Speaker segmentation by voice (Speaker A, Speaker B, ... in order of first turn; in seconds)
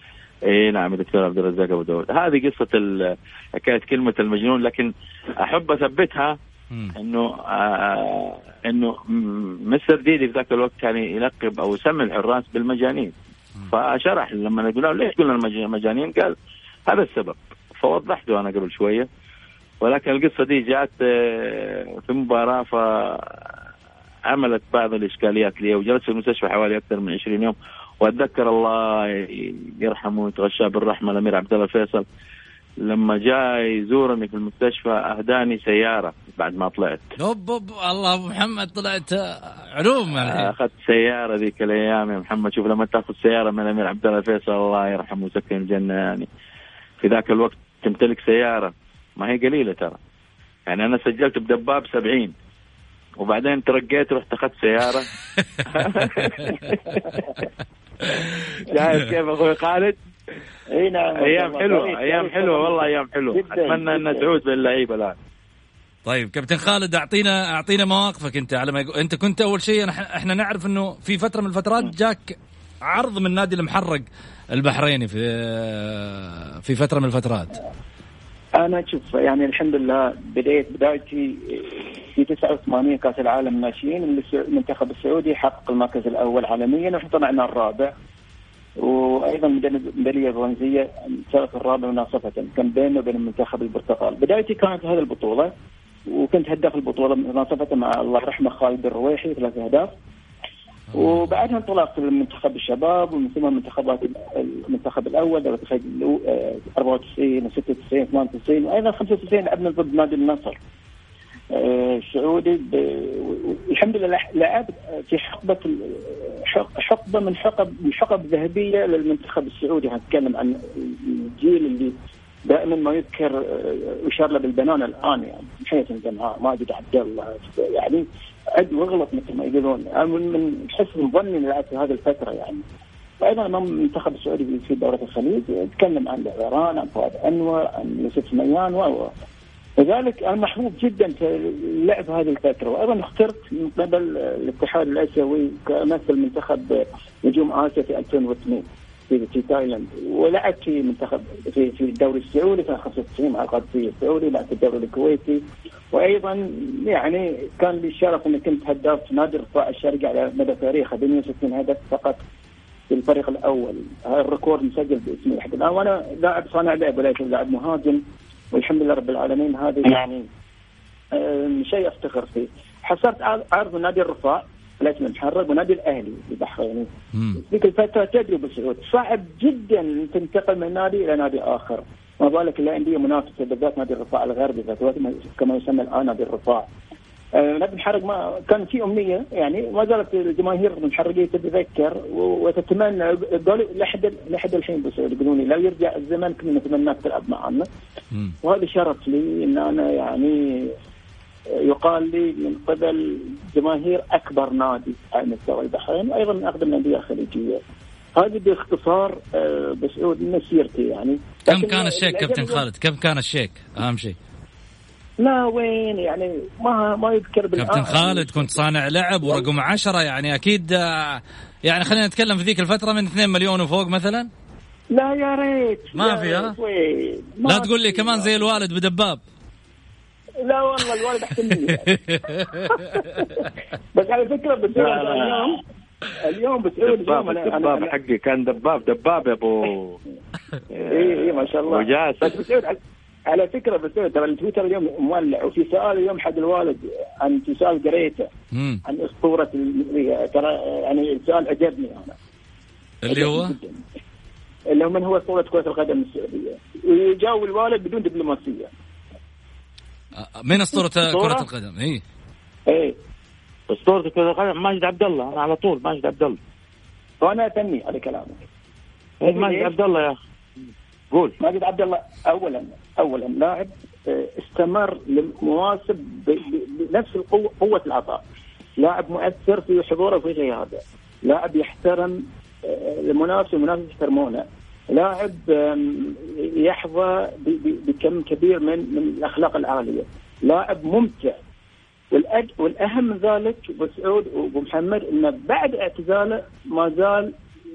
Speaker A: 0.5-6.3, 6.9-13.1, 13.7-16.4, 16.9-19.1, 19.8-23.5, 24.3-32.0, 32.8-37.1, 40.1-46.3, 47.0-50.0, 50.7-52.3, 53.2-55.1, 55.6-57.1, 58.1-60.0, 61.1-65.2, 234.7-235.6, 236.8-240.0, 240.7-242.4, 260.9-261.4, 263.7-266.4, 269.2-270.1, 271.1-271.4
Speaker B: 37.2-40.5, 66.0-77.5, 100.9-101.3, 177.1-177.4, 211.5-214.2, 217.6-224.3, 225.9-226.6, 227.4-229.2, 231.6-233.4, 248.5-248.8, 253.0-253.6, 260.2-262.0
Speaker C: 60.7-64.3, 78.6-87.9, 88.8-95.5, 96.1-99.9, 100.9-110.6, 111.5-121.9, 122.5-132.6, 133.2-139.1, 139.8-162.2, 162.9-170.3, 171.1-186.7, 187.3-197.7, 198.4-200.4, 201.6-207.6, 208.1-212.6, 215.2-218.6, 224.9-228.6, 230.4-235.6, 236.2-237.9, 240.9-248.3, 248.8-252.2, 253.1-253.8, 254.7-258.7, 262.7-262.9, 267.2-268.4, 269.2-269.7, 271.4-278.2, 278.8-291.4, 292.1-297.3